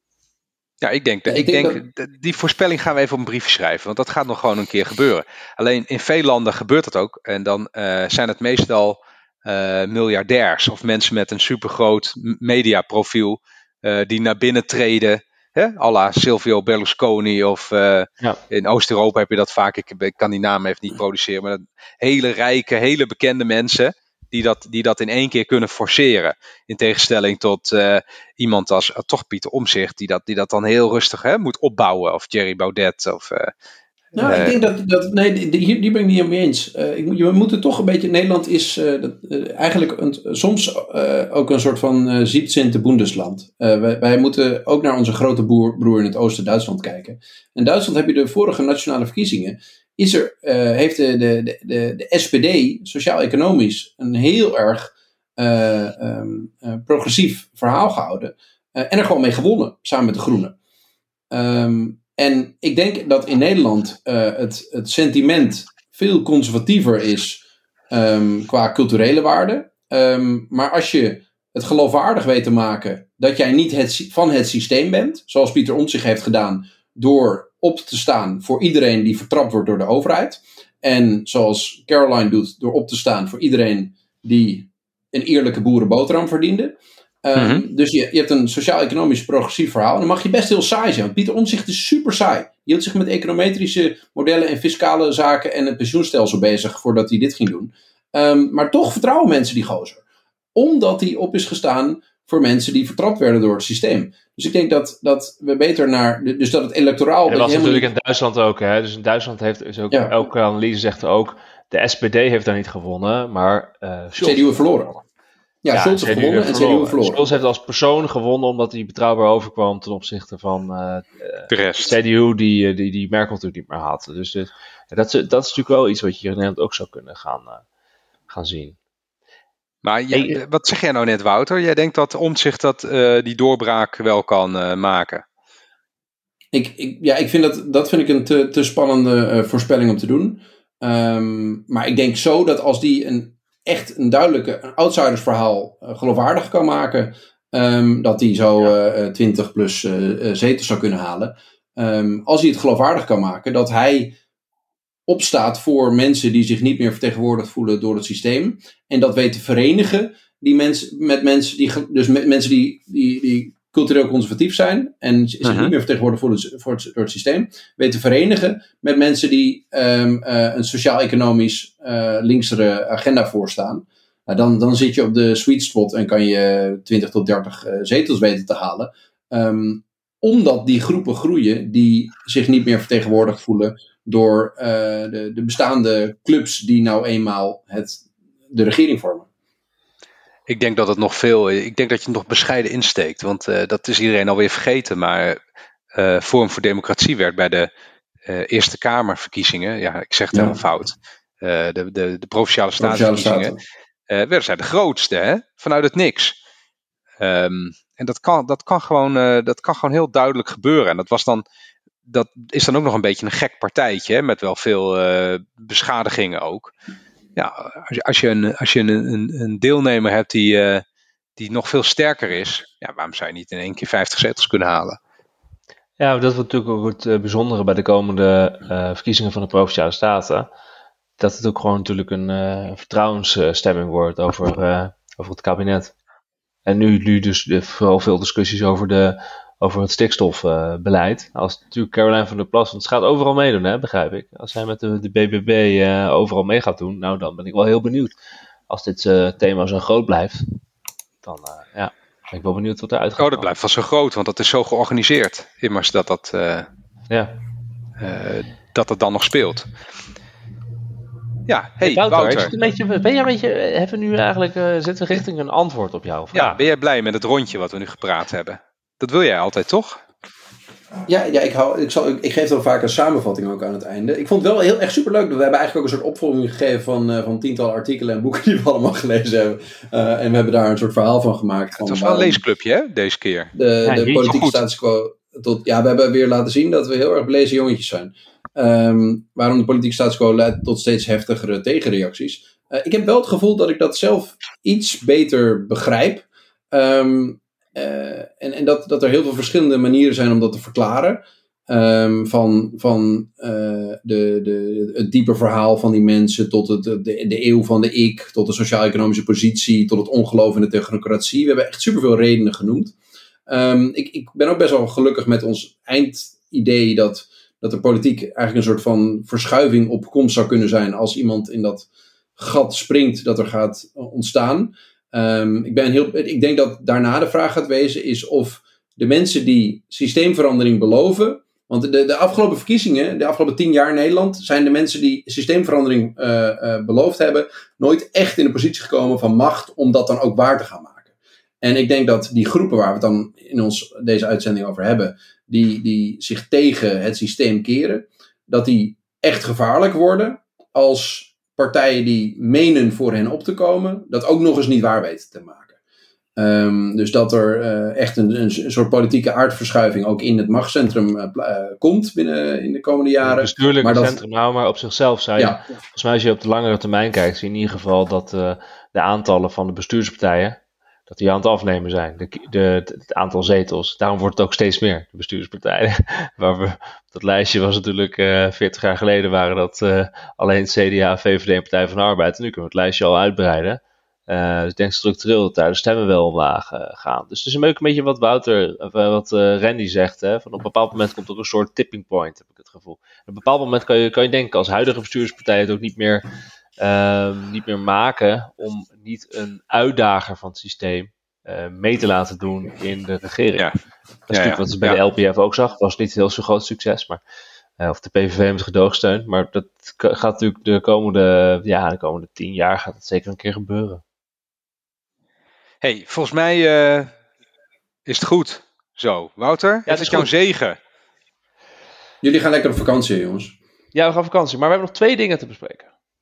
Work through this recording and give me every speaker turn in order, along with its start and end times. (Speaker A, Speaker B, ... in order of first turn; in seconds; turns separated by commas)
Speaker A: 0.8-33.5, Speaker B: 1.3-1.8, Speaker B: 34.1-60.5, Speaker A: 34.2-34.5, Speaker B: 61.3-100.0, Speaker A: 87.4-87.6, Speaker B: 100.5-107.9, Speaker C: 107.3-114.5, Speaker B: 114.2-115.0, Speaker B: 115.6-117.3, Speaker C: 115.7-127.6, Speaker A: 121.5-122.0, Speaker C: 128.3-128.8, Speaker A: 129.8-135.2, Speaker C: 130.1-130.4, Speaker B: 136.5-154.2, Speaker B: 155.1-189.3, Speaker A: 165.4-165.7, Speaker A: 190.5-195.4, Speaker A: 195.9-197.7, Speaker A: 198.3-203.6, Speaker B: 200.3-200.6, Speaker B: 202.8-203.6, Speaker A: 204.1-206.4, Speaker A: 207.2-211.4, Speaker A: 212.1-216.7, Speaker A: 217.4-220.8, Speaker A: 221.4-225.0, Speaker C: 226.0-230.5, Speaker C: 231.2-235.9, Speaker C: 236.7-248.2, Speaker C: 248.7-250.5, Speaker C: 251.2-253.5, Speaker A: 253.2-256.7, Speaker A: 258.0-259.7, Speaker A: 261.5-262.5, Speaker C: 261.8-266.6, Speaker A: 266.3-270.0, Speaker B: 271.1-282.4, Speaker A: 281.8-283.5, Speaker B: 283.5-312.9, Speaker C: 283.9-284.4, Speaker A: 284.2-284.6, Speaker B: 313.5-341.1, Speaker B: 341.6-355.7, Speaker B: 356.4-364.2, Speaker C: 363.2-396.2, Speaker C: 396.8-403.7, Speaker C: 404.3-407.2, Speaker A: 404.3-405.0, Speaker C: 407.8-414.0, Speaker A: 415.8-417.1, Speaker A: 418.1-420.8, Speaker C: 419.9-420.3, Speaker B: 422.2-423.6, Speaker C: 423.9-425.9